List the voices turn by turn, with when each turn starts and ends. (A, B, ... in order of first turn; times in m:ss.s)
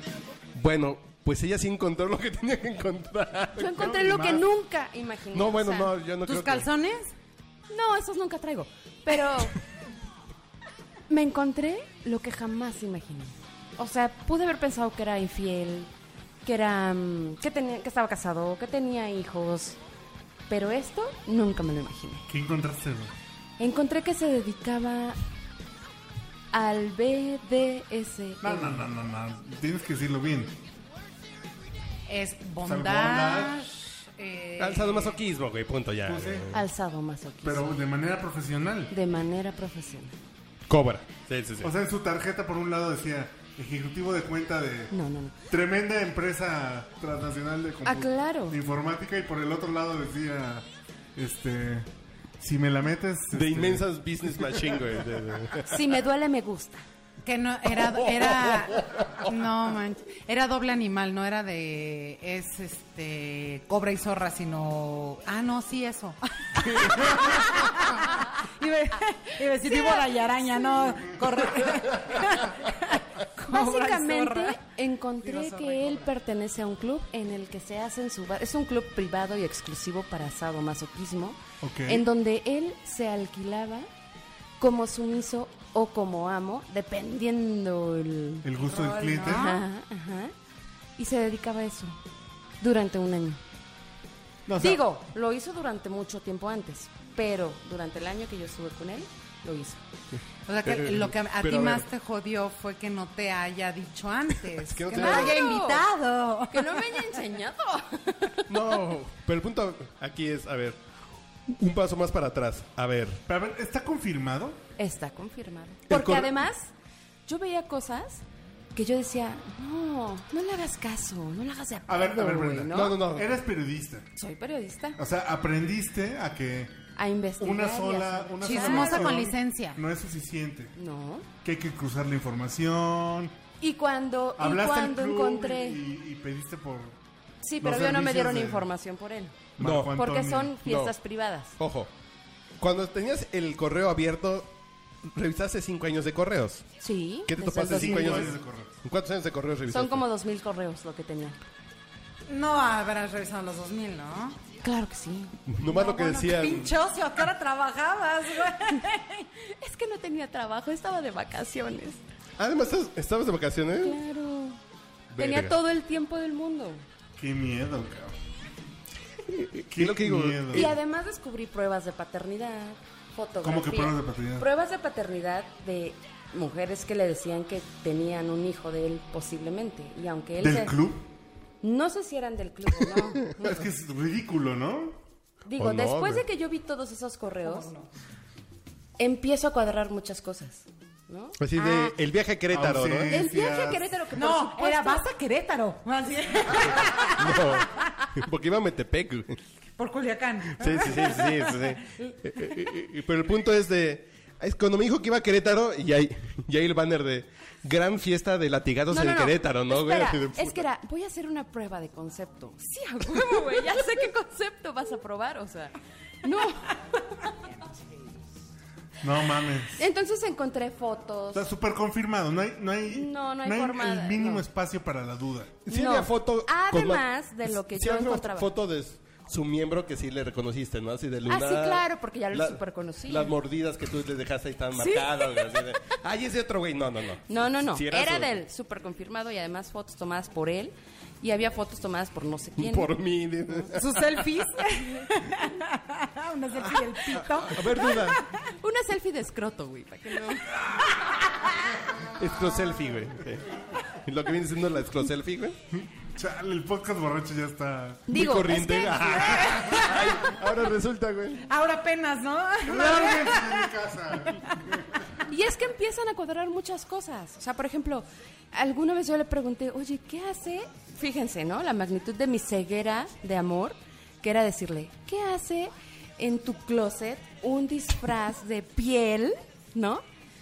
0:00.5-0:04.1 A
0:03.6-0:05.9 B
0:03.7-0:04.4 C
0:05.3-0:06.7 A
0:06.2-0:07.2 D
0:07.7-0:09.6 B
0:11.1-0:15.9 B
0:16.4-0:19.8 B
0:20.5-0:22.3 B
0:22.3-0:23.1 C
0:23.6-0:25.2 B
0:26.5-0:28.8 B
0:28.4-0:30.6 C
0:32.1-0:35.2 D
0:32.6-0:33.6 C
0:34.6-0:36.6 A
0:36.0-0:36.5 C
0:36.5-0:37.7 B
0:37.4-0:38.9 C
0:38.9-0:40.2 B
0:40.7-0:41.7 A
0:41.6-0:44.9 C
0:44.9-0:45.4 B
0:45.5-0:51.9 C
0:47.8-0:48.6 B
0:52.4-0:54.9 C
0:53.3-0:55.8 A
0:55.7-0:56.8 B
0:57.2-1:14.6 D
0:57.8-0:59.3 A
1:09.6-1:11.2 B
1:13.5-1:23.9 B
1:15.2-1:16.1 D
1:21.6-1:22.1 C
1:24.6-1:30.3 B
1:28.4-1:29.6 C
1:28.7-1:29.6 D
1:31.0-1:32.0 B
1:32.6-1:33.4 B
1:34.5-1:34.8 C
1:34.6-1:39.8 B
1:40.1-1:41.9 A
1:40.5-1:47.1 D
1:44.6-1:45.4 A
1:45.0-1:45.9 B
1:46.5-1:48.8 B
1:48.5-1:50.8 A
1:51.5-1:53.2 A
1:53.3-1:54.6 C
1:54.8-1:56.7 B
1:55.9-1:56.4 A
1:57.3-1:58.2 B
1:58.8-2:03.0 B
2:01.9-2:04.1 C
2:02.7-2:03.3 A
2:04.2-2:05.0 B
2:05.0-2:06.8 C
2:07.0-2:09.2 B
2:07.4-2:10.8 C
2:08.4-2:09.8 D
2:10.8-2:11.3 B
2:11.4-2:13.4 C
2:13.6-2:15.8 B
2:14.4-2:17.0 C
2:17.4-2:21.6 B
2:17.6-2:18.7 C
2:19.6-2:20.6 C
2:19.6-2:20.0 A
2:20.6-2:21.0 A
2:21.6-2:21.9 A
2:22.6-2:24.5 A
2:25.0-2:26.7 A
2:26.8-2:28.3 B
2:27.3-2:30.1 A
2:27.7-2:28.7 C
2:29.7-2:31.4 B
2:32.3-2:34.4 D
2:34.6-2:35.4 B
2:35.5-2:36.8 A
2:35.6-2:39.3 D
2:39.6-2:42.0 B
2:42.4-2:44.0 A
2:43.8-2:44.6 B
2:45.1-2:45.6 A
2:45.2-2:46.8 B
2:47.2-2:48.2 C
2:49.3-2:50.8 A
2:49.7-2:50.7 C
2:50.5-3:00.8 B
2:53.4-2:54.5 C
3:00.4-3:01.1 C
3:01.6-3:03.6 B
3:03.4-3:05.0 C
3:05.5-3:07.7 B
3:05.6-3:06.2 A
3:07.4-3:07.9 D
3:09.0-3:12.0 B
3:11.4-3:13.3 A
3:12.5-3:14.0 C
3:13.1-3:15.0 B
3:14.1-3:17.6 D
3:16.8-3:19.4 A
3:19.8-3:21.7 D
3:20.6-3:30.7 A
3:28.9-3:37.4 B
3:39.0-3:39.8 C
3:39.8-3:41.5 B
3:41.3-3:45.6 C
3:42.9-3:44.4 B
3:45.7-3:58.4 A
3:45.7-3:48.5 B
3:51.3-3:53.3 B
3:54.8-3:55.7 B
3:57.3-4:02.9 B
4:02.6-4:04.2 A
4:03.7-4:08.4 D
4:06.6-4:08.2 A
4:08.6-4:10.7 B
4:12.1-4:15.6 A
4:15.7-4:18.1 C
4:18.1-4:19.5 B
4:18.1-4:21.4 A
4:18.9-4:19.9 C
4:19.6-4:20.1 D
4:21.5-4:23.7 D
4:22.6-4:25.0 C
4:25.3-4:40.0 B